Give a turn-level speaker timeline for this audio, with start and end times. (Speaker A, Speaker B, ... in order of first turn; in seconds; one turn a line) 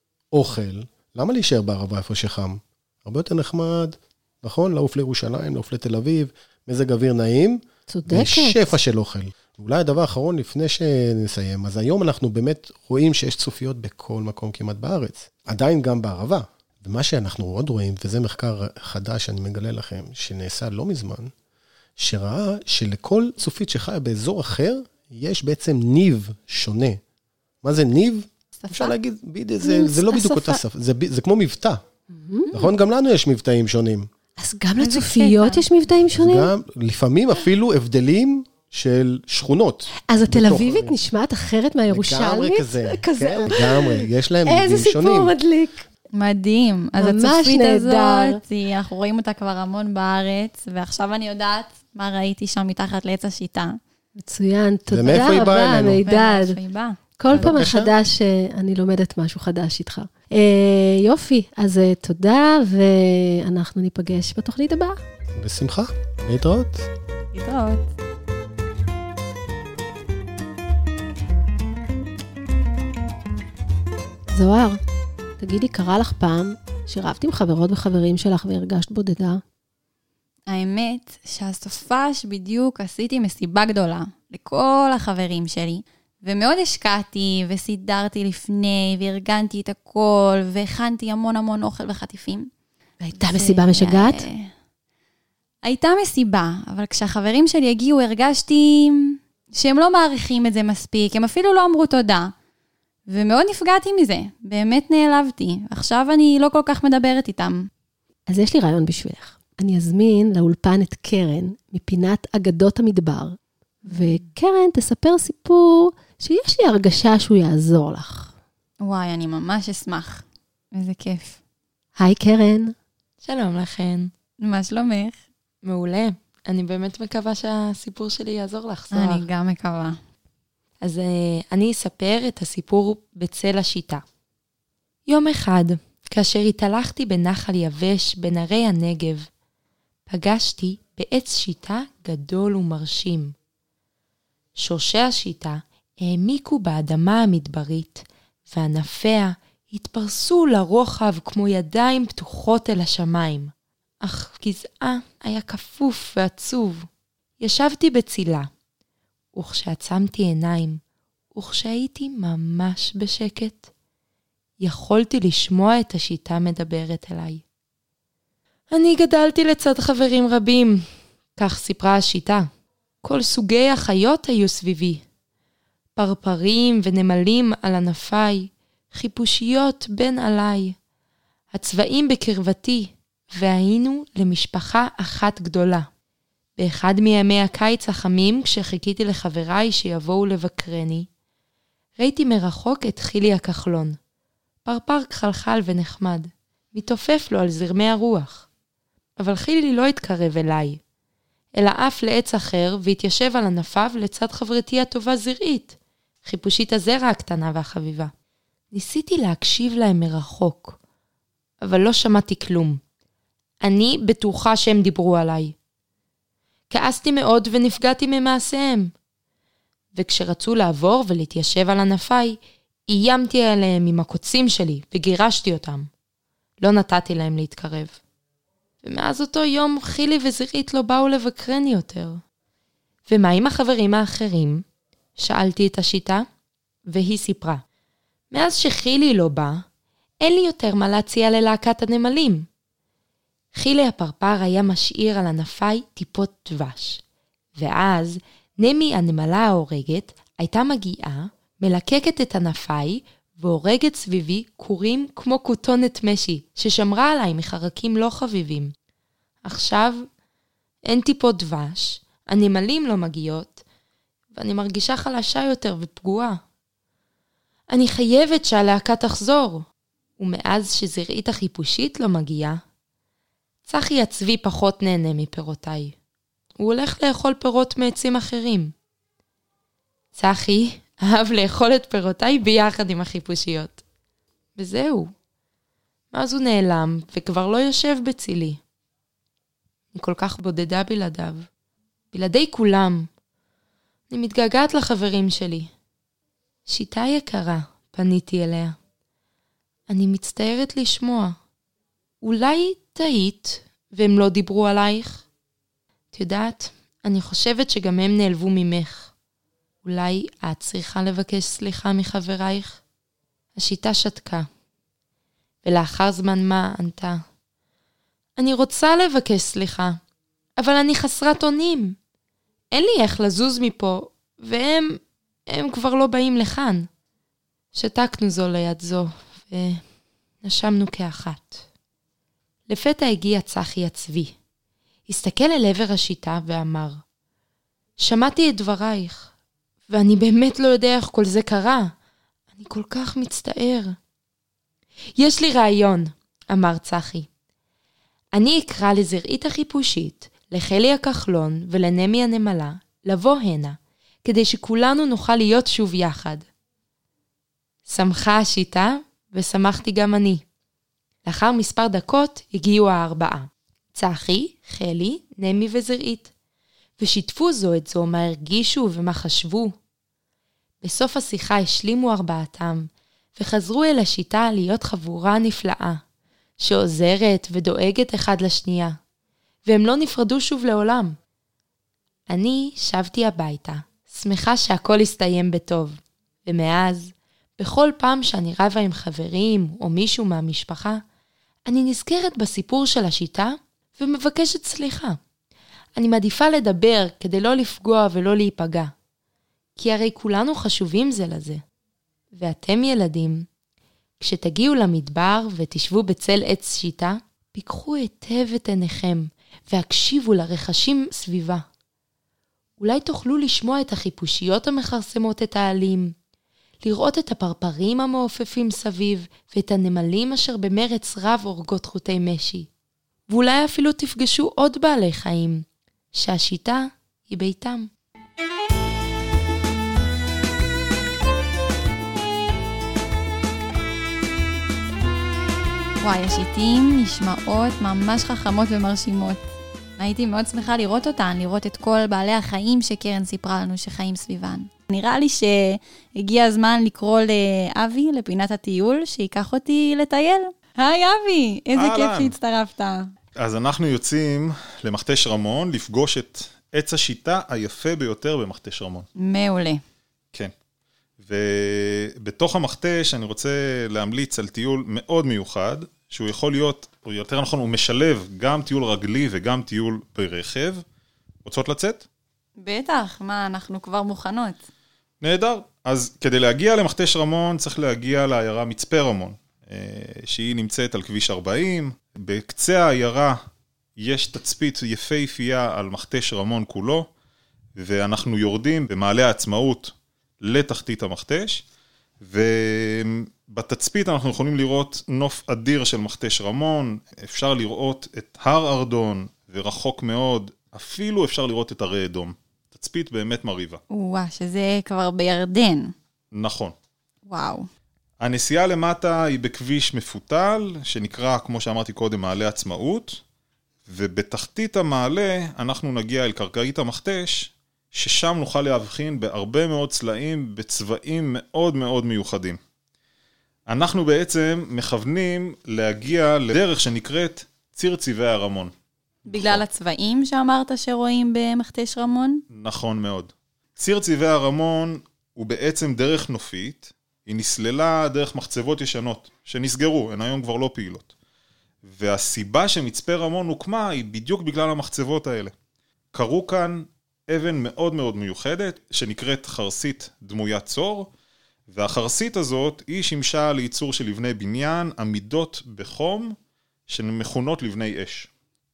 Speaker A: 0.3-21.3
Speaker B: 7.9-8.7
Speaker A: 22.0-27.0
Speaker A: 27.6-31.8
Speaker C: 28.6-28.9
Speaker B: 29.6-30.6
Speaker B: 32.1-32.6
Speaker A: 32.5-34.1
Speaker B: 34.4-36.5
Speaker C: 34.8-35.6
Speaker A: 36.1-41.0
Speaker B: 40.1-45.9
Speaker A: 41.9-45.3
Speaker C: 46.1-53.8
Speaker B: 47.0-48.4
Speaker B: 54.2-56.6
Speaker A: 54.9-56.0
Speaker C: 55.1-57.6
Speaker B: 57.2-65.0
Speaker A: 57.3-57.9
Speaker A: 65.3-66.9
Speaker C: 67.3-67.9
Speaker B: 74.3-74.8
Speaker B: 75.4-79.4
Speaker C: 80.5-92.5
Speaker B: 93.0-94.2
Speaker C: 93.2-94.5
Speaker C: 95.6-102.3
Speaker C: 103.1-107.7
Speaker B: 108.3-118.3
Speaker C: 113.9-114.3
Speaker C: 118.8-121.4
Speaker B: 122.0-122.7
Speaker D: 123.2-124.1
Speaker C: 124.4-125.2
Speaker D: 125.6-129.3
Speaker C: 128.9-130.0
Speaker D: 130.8-134.0
Speaker D: 135.1-139.3
Speaker D: 140.1-143.3
Speaker D: 144.6-153.5
Speaker D: 154.0-156.9
Speaker D: 157.4-158.5
Speaker D: 159.3-160.8
Speaker D: 161.3-163.7
Speaker D: 164.6-167.4
Speaker D: 168.7-170.8
Speaker D: 171.4-172.5
Speaker D: 173.0-175.0
Speaker D: 176.0-180.8
Speaker D: 181.5-185.9
Speaker D: 186.6-191.1
Speaker D: 192.0-194.0
Speaker D: 194.7-198.4
Speaker D: 199.2-200.8
Speaker D: 201.6-208.1
Speaker D: 208.7-210.8
Speaker D: 211.6-212.8
Speaker D: 213.6-215.5
Speaker D: 216.7-218.9
Speaker D: 219.9-222.4
Speaker D: 222.9-225.9
Speaker D: 226.6-228.0
Speaker D: 228.8-232.2
Speaker D: 233.1-234.6
Speaker D: 235.2-236.2
Speaker D: 236.9-237.6
Speaker D: 238.3-239.6
Speaker D: 240.2-242.4
Speaker D: 243.5-247.0
Speaker D: 247.6-258.7
Speaker D: 259.5-260.0
Speaker D: 260.9-263.6
Speaker D: 264.4-266.4
Speaker D: 267.7-269.6
Speaker D: 270.2-272.6
Speaker D: 273.6-275.9
Speaker D: 276.6-278.7
Speaker D: 280.1-283.8
Speaker D: 284.6-285.1
Speaker D: 286.1-288.6
Speaker D: 289.9-291.5
Speaker D: 292.1-293.1
Speaker D: 294.1-295.7
Speaker D: 296.7-298.8
Speaker D: 299.9-301.4
Speaker D: 302.2-305.2
Speaker D: 306.1-309.1
Speaker D: 309.8-312.8
Speaker D: 313.6-314.5
Speaker D: 315.6-317.2
Speaker D: 318.4-320.0
Speaker D: 320.6-321.9
Speaker D: 322.7-326.9
Speaker D: 327.7-329.8
Speaker D: 330.4-331.6
Speaker D: 332.7-334.3
Speaker D: 335.1-337.0
Speaker D: 338.0-339.3
Speaker D: 339.9-341.9
Speaker D: 342.5-344.0
Speaker D: 345.2-347.3
Speaker D: 348.4-356.4
Speaker D: 357.9-360.4
Speaker D: 361.3-366.3
Speaker D: 367.0-369.7
Speaker D: 370.8-376.0
Speaker D: 376.6-378.9
Speaker D: 379.7-381.1
Speaker D: 382.3-391.0
Speaker D: 391.7-395.2
Speaker D: 396.0-398.9
Speaker D: 399.8-401.6
Speaker D: 402.3-403.4
Speaker D: 404.2-411.6
Speaker D: 412.8-416.1
Speaker D: 416.8-422.7
Speaker D: 423.3-425.6
Speaker D: 426.1-427.9
Speaker C: 436.0-439.4
Speaker C: 440.0-453.1
Speaker E: 451.8-452.3
Speaker E: 453.4-459.1
Speaker C: 459.2-459.8
Speaker E: 461.2-470.8
Speaker E: 471.4-472.1
Speaker C: 472.6-474.6
Speaker E: 475.2-483.4
Speaker E: 484.0-487.1
Speaker E: 487.8-491.6
Speaker E: 492.2-503.8
Speaker C: 503.9-505.9
Speaker E: 506.3-506.8
Speaker C: 507.3-507.7
Speaker E: 508.2-513.2
Speaker E: 513.9-522.6
Speaker E: 523.7-528.7
Speaker C: 529.3-532.4
Speaker E: 529.3-529.6
Speaker E: 532.5-541.1
Speaker E: 541.8-545.5
Speaker E: 546.1-551.1
Speaker E: 551.7-556.4
Speaker E: 556.9-558.3